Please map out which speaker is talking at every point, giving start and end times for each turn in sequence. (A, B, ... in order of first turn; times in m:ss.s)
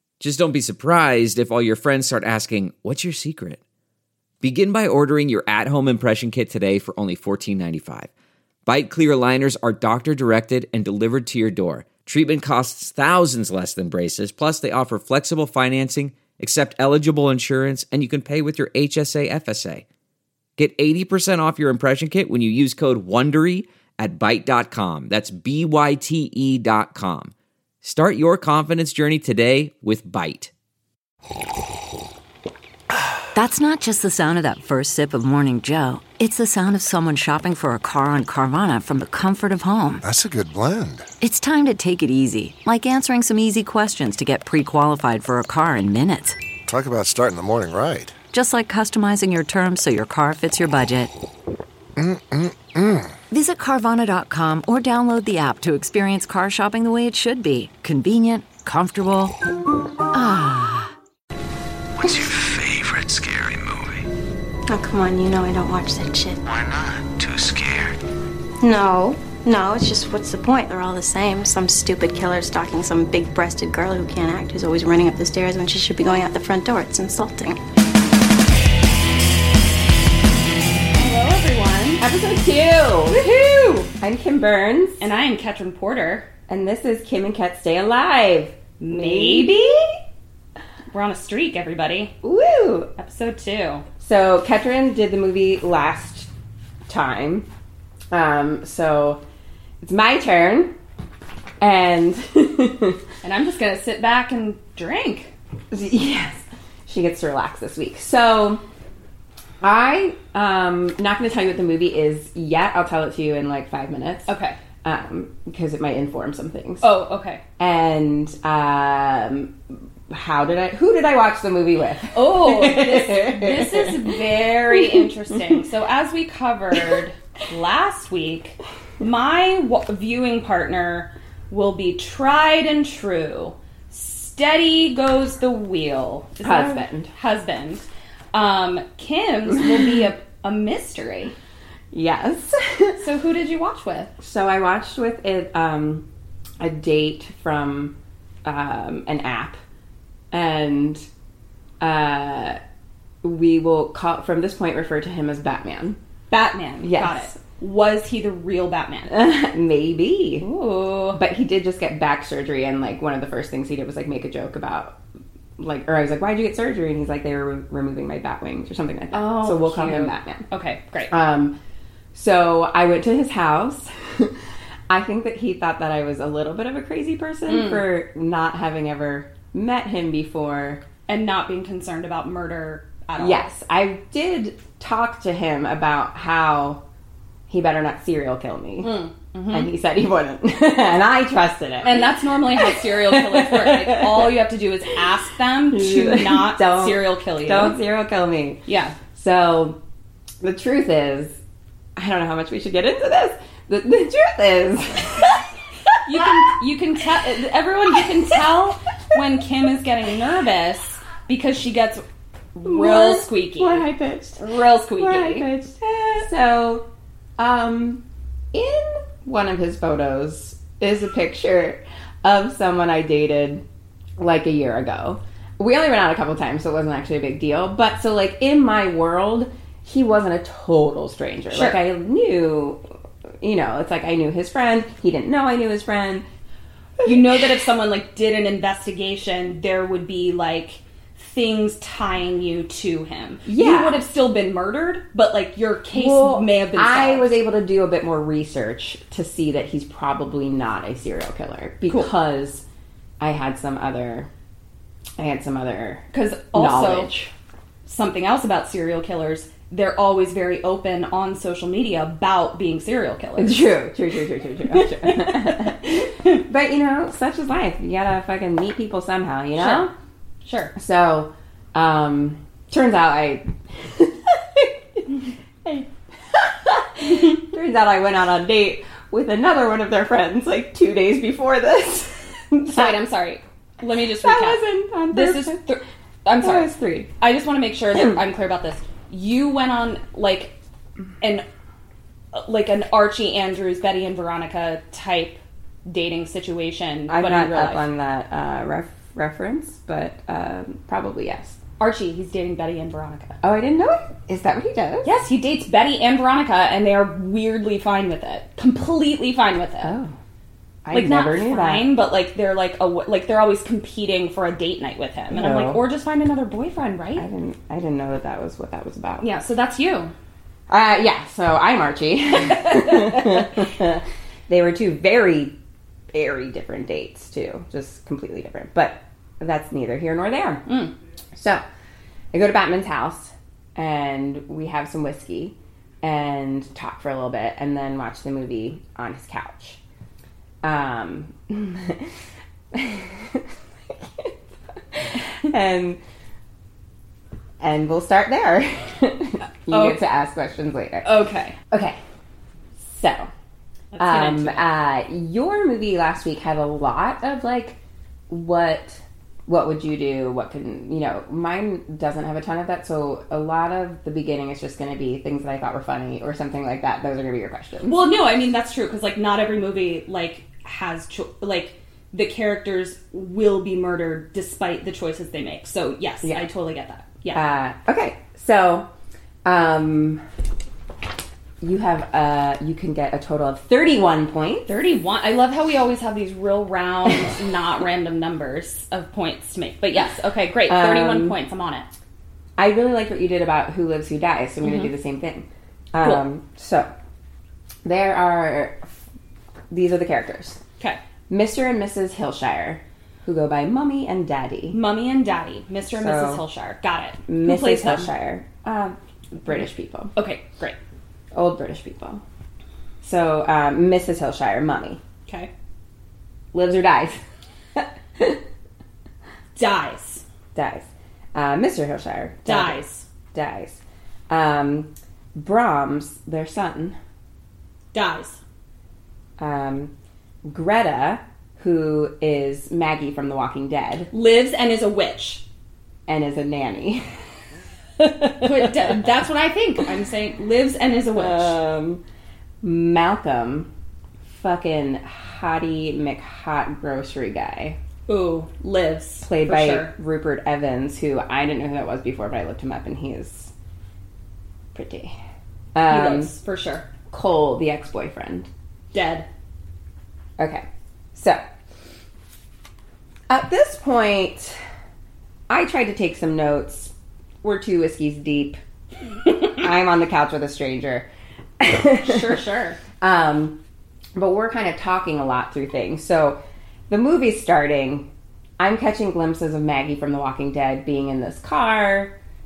0:00.2-0:03.6 A
0:04.4-0:08.1 A
0:08.7-0:19.8 A
0:20.6-0:30.5 A
0:33.3-0:40.0 B
0:40.0-0:41.1 C
0:41.2-0:46.4 B
0:46.7-0:48.2 C
0:48.3-0:51.1 B
0:52.0-0:53.2 C
0:53.3-0:59.3 B
1:00.1-1:00.9 B
1:02.0-1:04.0 D
1:04.7-1:06.4 E
1:06.4-1:08.0 D
1:08.6-1:17.6 E
1:20.9-1:22.0 F
1:22.0-1:23.2 G
1:23.1-1:23.9 F
1:24.0-1:25.1 G
1:25.0-1:26.3 F
1:26.5-1:29.9 G
1:28.8-1:29.8 F
1:30.9-1:32.1 F
1:32.2-1:32.9 G
1:33.0-1:33.8 F
1:34.0-1:36.3 G
1:36.9-1:37.5 G
1:38.1-1:39.2 G
1:39.8-1:40.7 G
1:41.6-1:43.0 G
1:43.2-1:45.3 F
1:45.7-1:48.6 G
1:49.6-1:56.9 G
1:54.3-1:54.6 F
1:56.8-1:57.4 F
1:57.6-1:59.6 G
2:00.1-2:04.2 G
2:02.1-2:21.3 F
2:04.7-2:05.0 G
2:16.4-2:17.1 G
2:21.9-2:23.0 G
2:23.0-2:24.1 F
2:24.2-2:26.1 G
2:26.6-2:29.6 G
2:30.3-2:31.1 G
2:31.8-2:32.6 G
2:33.2-2:36.0 G
2:36.3-2:39.2 F
2:36.8-2:37.3 G
2:39.1-2:40.5 G
2:40.4-2:41.2 F
2:41.1-2:45.0 G
2:45.6-2:50.4 G
2:49.1-2:51.1 F
2:51.1-2:51.5 G
2:52.1-2:54.4 G
2:54.9-3:00.8 G
2:57.5-2:57.8 F
3:01.1-3:03.5 F
3:03.2-3:06.8 G
3:07.5-3:14.3 G
3:08.8-3:09.7 F
3:11.8-3:17.8 F
3:15.7-3:18.6 G
3:18.7-3:19.0 F
3:19.1-3:19.8 G
3:20.4-3:21.4 G
3:22.0-3:26.5 G
3:26.0-3:32.0 F
3:32.6-3:33.9 F
3:32.6-3:34.4 G
3:34.4-3:36.2 F
3:35.0-3:36.8 G
3:37.4-3:43.6 G
3:44.2-3:52.8 G
3:51.5-3:51.8 F
3:53.4-3:56.2 G
3:57.0-3:57.5 G
3:57.0-4:07.4 F
4:03.4-4:04.0 G
4:05.9-4:12.6 G
4:13.2-4:14.3 G
4:15.2-4:17.3 G
4:16.1-4:17.1 F
4:17.9-4:23.7 F
4:23.4-4:29.9 G
4:24.7-4:26.4 F
4:29.6-4:29.9 F
4:30.4-4:30.7 F
4:30.8-4:42.9 G
4:42.6-4:50.6 F
4:44.2-4:45.6 G
4:46.4-4:47.1 G
4:52.3-4:57.9 F
4:57.1-5:01.6 G
5:01.8-5:03.4 F
5:03.4-5:05.1 G
5:05.0-5:10.0 F
5:09.8-5:10.2 G
5:10.8-5:11.9 G
5:10.9-5:17.3 F
5:15.3-5:15.8 G
5:17.2-5:19.2 G
5:19.2-5:20.1 F
5:20.7-5:25.6 G
5:26.1-5:30.7 G
5:30.7-5:30.9 F
5:31.4-5:31.6 G
5:32.3-5:39.8 G
5:40.6-5:42.1 G
5:42.7-5:44.3 G
5:44.9-5:46.0 G
5:47.6-5:51.1 G
5:49.7-5:50.0 F
5:51.0-5:51.6 F
5:51.7-5:52.0 G
5:52.8-5:53.3 G
5:53.9-5:54.7 F
5:54.0-5:57.8 G
5:58.3-6:08.0 G
6:07.9-6:17.4 F
6:17.3-6:18.9 G
6:19.4-6:20.2 G
6:21.6-6:24.7 G
6:24.7-6:31.9 F
6:30.7-6:31.4 G
6:32.6-6:36.9 G
6:34.6-6:34.9 F
6:36.0-6:36.2 F
6:37.8-6:38.9 G
6:39.7-6:40.6 G
6:41.3-6:44.8 G
6:44.7-6:48.1 F
6:45.9-6:46.4 G
6:47.3-6:50.1 G
6:50.2-6:50.8 F
6:51.3-6:52.2 G
6:53.0-6:55.0 G
6:56.5-6:57.2 G
6:57.8-6:58.4 G
6:59.6-7:00.2 F
7:00.5-7:07.0 G
7:02.4-7:03.1 F
7:07.9-7:08.4 F
7:09.4-7:09.9 G
7:10.4-7:14.1 G
7:14.1-7:15.4 F
7:16.1-7:17.0 G
7:18.0-7:19.0 G
7:18.4-7:21.6 F
7:21.2-7:22.0 G
7:22.6-7:23.7 G
7:24.3-7:27.8 G
7:28.1-7:29.9 F
7:29.2-7:33.5 G
7:34.7-7:35.2 G
7:35.8-7:36.3 G
7:35.9-7:36.8 F
7:37.1-7:38.5 G
7:38.9-7:39.3 F
7:40.4-7:41.4 G
7:43.3-7:44.6 G
7:45.5-7:48.6 G
7:49.2-7:51.1 G
7:51.6-7:52.4 G
7:52.0-7:52.8 F
7:53.0-7:53.6 G
7:54.2-7:56.4 G
7:56.9-8:02.2 G